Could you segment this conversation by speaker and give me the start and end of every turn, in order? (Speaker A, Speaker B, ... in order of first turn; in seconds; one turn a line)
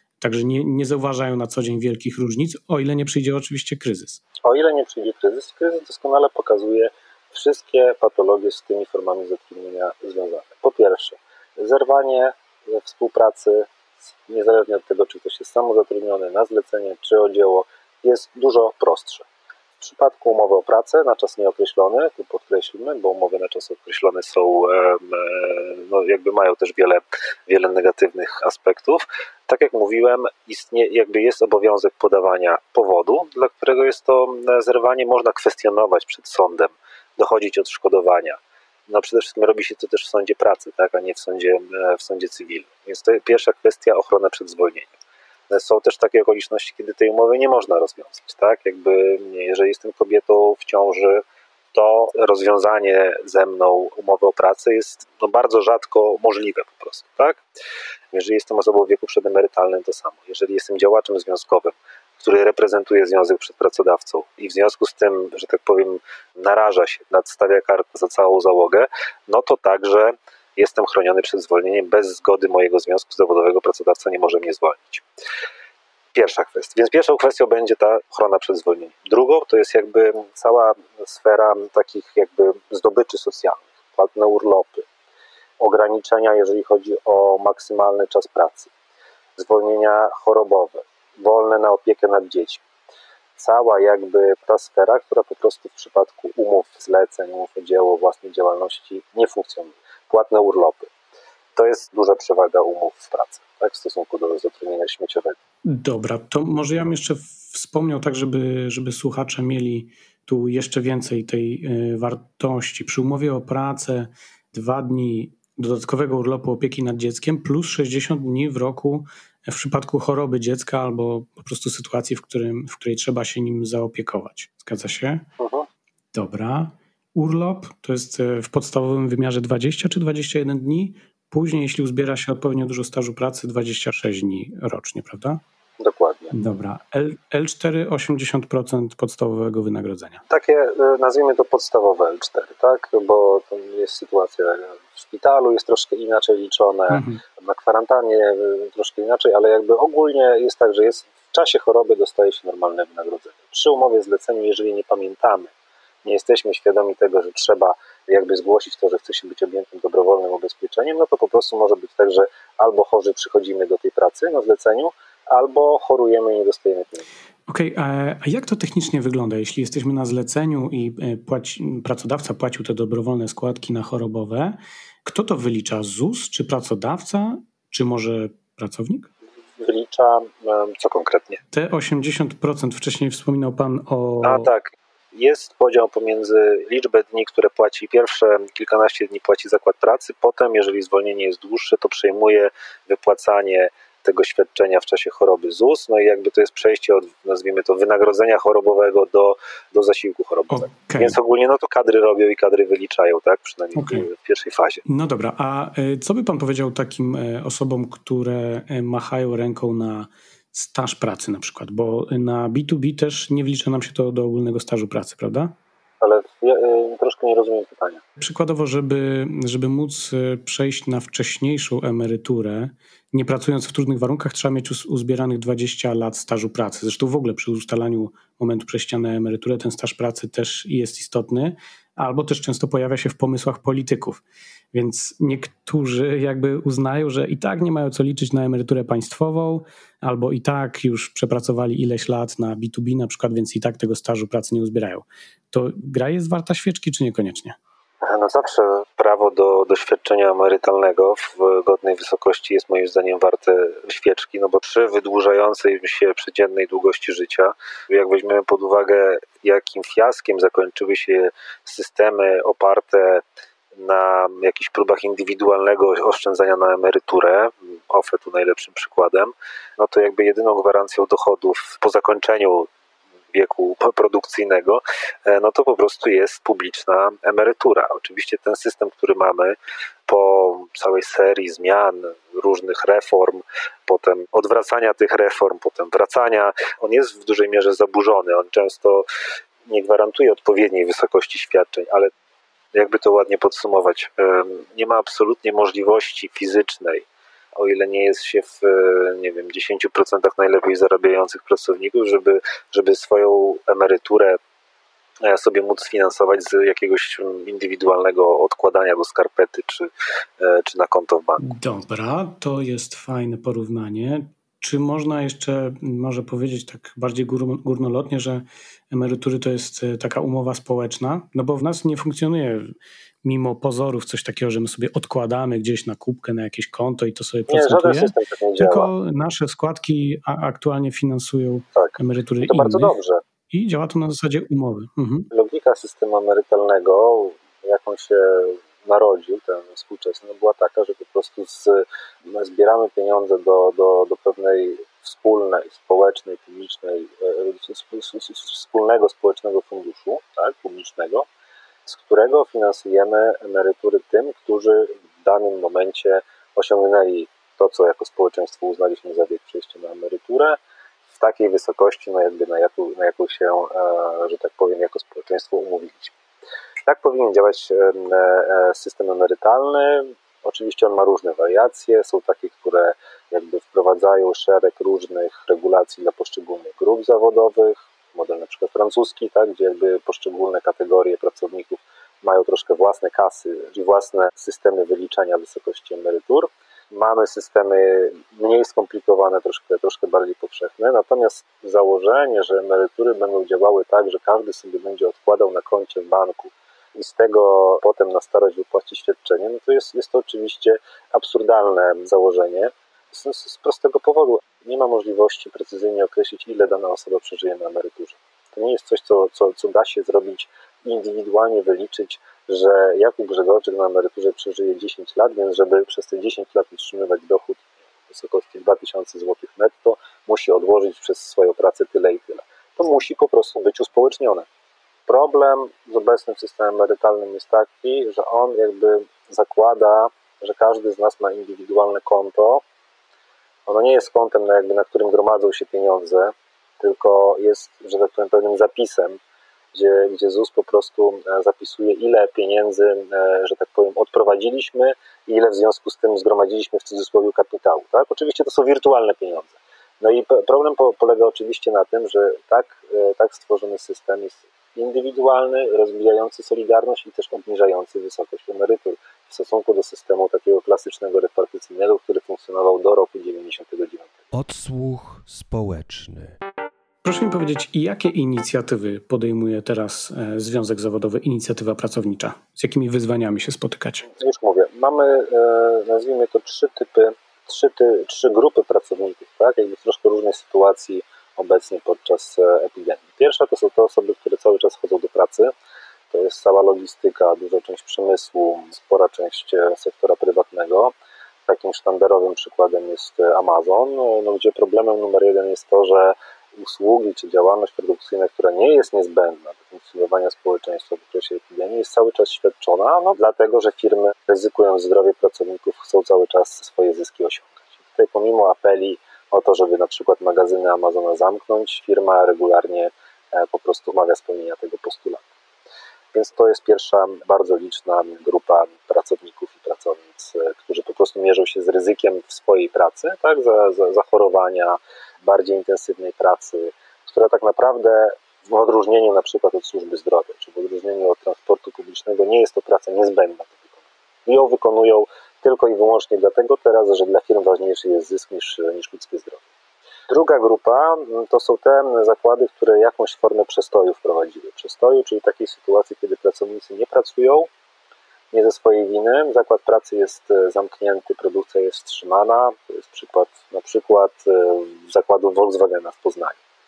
Speaker A: 0.2-4.2
Speaker B: 4.4-13.7
Speaker B: 14.2-19.2
Speaker B: 19.8-44.9
Speaker B: 45.5-57.4
Speaker B: 58.1-75.0
Speaker B: 76.1-84.9
Speaker B: 85.6-88.7
Speaker B: 89.4-92.6
Speaker B: 93.4-100.9
Speaker B: 101.5-105.4
Speaker A: 105.7-125.2
Speaker B: 125.4-125.7
Speaker A: 126.1-135.4
Speaker B: 135.8-136.3
Speaker A: 136.3-140.2
Speaker B: 140.3-155.5
Speaker A: 146.9-147.2
Speaker B: 156.0-167.1
Speaker A: 167.5-179.1
Speaker B: 179.6-181.4
Speaker A: 181.5-184.5
Speaker B: 184.2-204.8
Speaker A: 200.5-201.2
Speaker A: 203.8-204.0
Speaker A: 204.8-215.5
Speaker B: 216.0-218.0
Speaker A: 218.2-234.2
Speaker A: 234.7-247.6
Speaker B: 248.0-263.2
Speaker B: 263.7-272.7
Speaker B: 273.3-279.6
Speaker B: 280.1-289.1
Speaker B: 289.7-292.1
Speaker B: 292.7-304.4
Speaker B: 305.2-309.9
Speaker B: 310.4-311.4
Speaker A: 311.4-332.9
Speaker B: 327.5-328.9
Speaker B: 331.8-333.2
Speaker A: 333.5-335.3
Speaker B: 335.3-351.3
Speaker B: 351.9-360.6
Speaker B: 361.1-366.1
Speaker B: 366.9-424.5
Speaker B: 425.1-432.6
Speaker B: 433.7-439.2
Speaker B: 439.7-464.1
Speaker C: 464.3-466.4
Speaker A: 467.0-474.1
Speaker B: 474.2-485.5
Speaker B: 486.1-490.9
Speaker B: 491.5-515.2
Speaker B: 516.1-533.7
Speaker B: 534.2-539.4
Speaker B: 540.1-547.5
Speaker B: 548.3-556.4